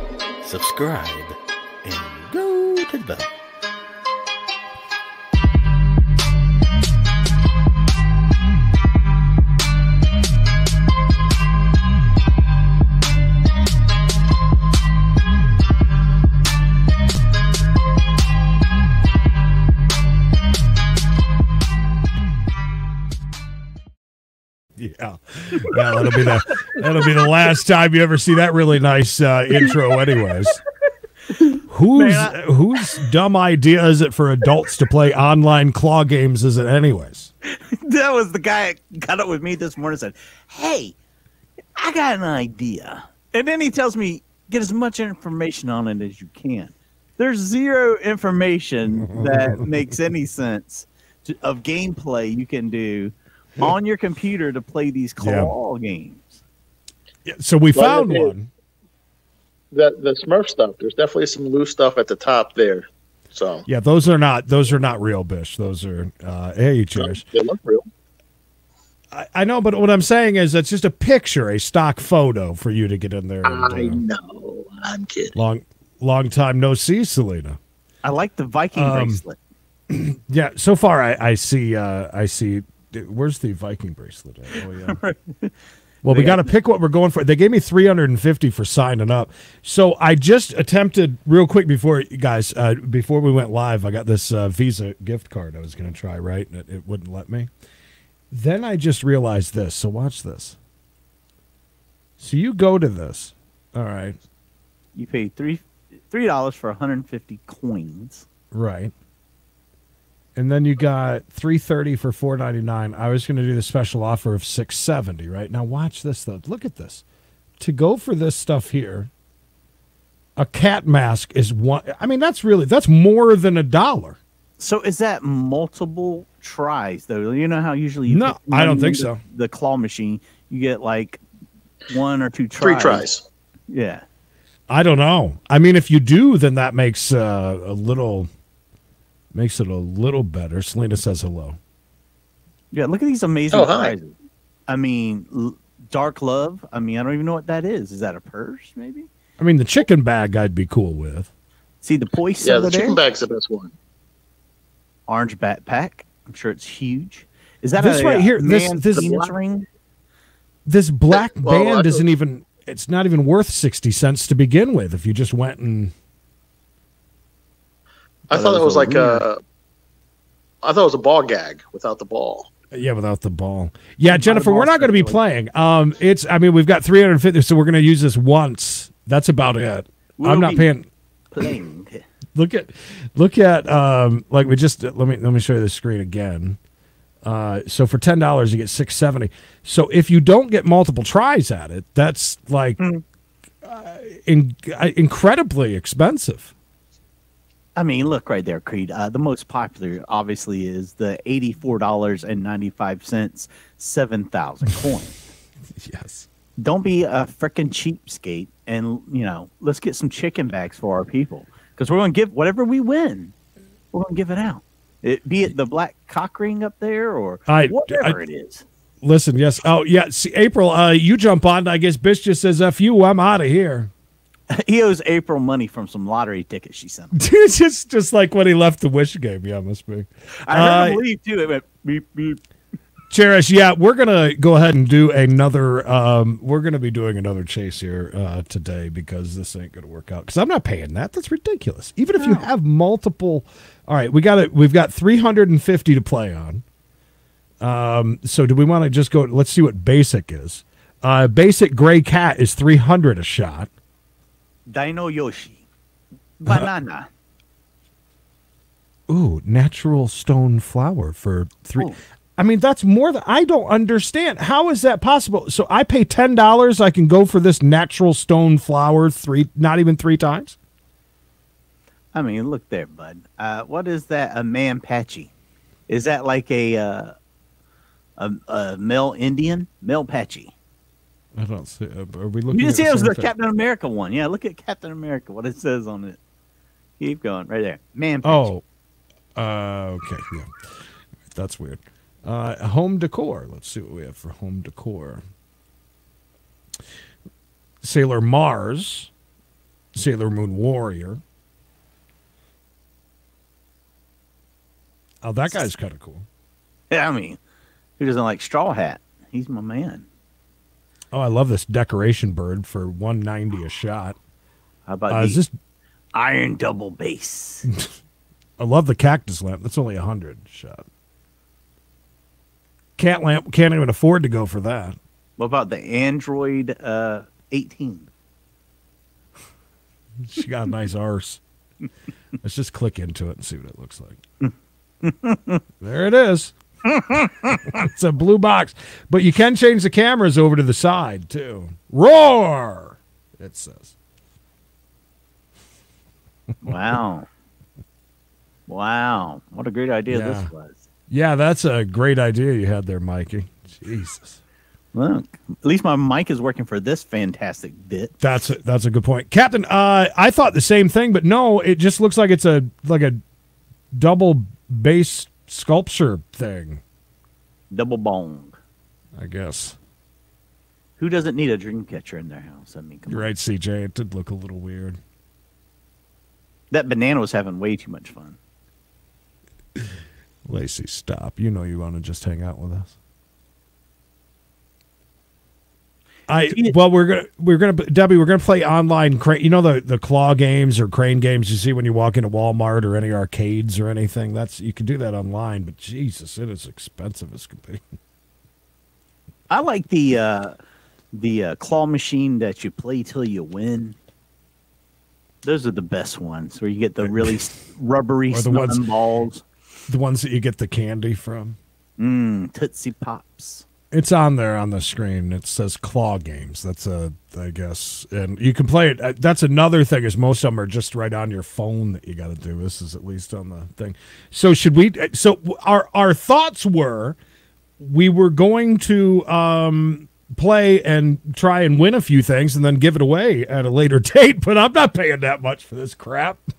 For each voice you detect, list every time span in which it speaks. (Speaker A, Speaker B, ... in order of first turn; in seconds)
Speaker A: 0.4-3.3
Speaker B: 24.8-30.6, 31.7-37.3, 49.0-49.7, 55.2-55.5, 57.3-58.5, 63.7-67.2, 69.1-74.0, 75.3-77.6, 78.7-79.2, 79.9-85.0, 86.0-97.5, 98.3-100.6, 102.2-104.2, 108.5-108.9, 110.3-117.0, 117.6-119.1, 120.4-124.2, 128.1-129.2, 134.7-138.3, 139.3-141.6, 149.4-151.3, 157.8-159.1, 160.7-165.9, 172.7-180.9, 182.3-186.6, 187.2-192.8, 193.6-196.5, 205.8-206.3, 217.5-218.2, 219.0-223.9, 227.2-231.0, 233.1-246.6, 247.6-253.7, 259.1-270.6, 281.4-283.3, 288.2-288.6, 289.4-290.6, 291.3-295.2, 297.8-299.1, 299.9-301.2, 305.2-306.3, 311.1-314.2, 315.1-315.5, 318.6-320.9, 323.0-325.0, 330.2-331.4, 332.4-334.2, 335.8-336.5, 337.6-343.9, 350.1-350.5, 351.1-354.4, 358.2-363.2, 363.9-366.8, 369.2-369.8, 373.1-375.0, 380.5-382.9, 386.3-397.8, 407.0-407.3, 408.3-408.8, 409.9-411.6, 413.9-427.2, 427.8-436.4
Speaker C: 31.4-32.4, 37.5-41.0, 41.8-56.3, 78.0-79.4, 84.5-85.5, 86.1-86.5, 105.0-108.2, 124.6-131.2, 131.9-133.1, 133.7-134.1, 142.7-144.2, 144.7-149.1, 151.8-153.0, 155.1-159.7, 168.3-169.2, 174.1-175.2, 180.2-180.7, 181.3-182.1, 197.8-205.2, 206.6-213.3, 213.9-218.7, 224.5-227.2, 230.4-232.4, 242.2-242.5, 254.7-255.6, 256.4-257.1, 272.1-275.3, 275.9-277.1, 278.2-280.5, 282.5-286.2, 287.0-288.5, 306.9-307.4, 308.0-310.1, 314.9-315.4, 316.1-317.7, 325.4-328.1, 334.4-335.6, 336.9-337.8, 346.6-347.3, 348.7-350.8, 354.9-358.1, 367.7-368.6, 371.0-373.3, 376.7-378.4, 386.5-386.8, 399.5-400.6, 401.1-404.0, 405.4-409.4, 412.0-413.7
Speaker D: 57.8-58.3, 59.7-63.6, 67.0-67.9, 73.5-75.3, 132.6-133.2, 143.5-144.0, 152.4-153.7, 159.0-159.3, 161.1-162.1, 168.3-169.4, 170.6-172.5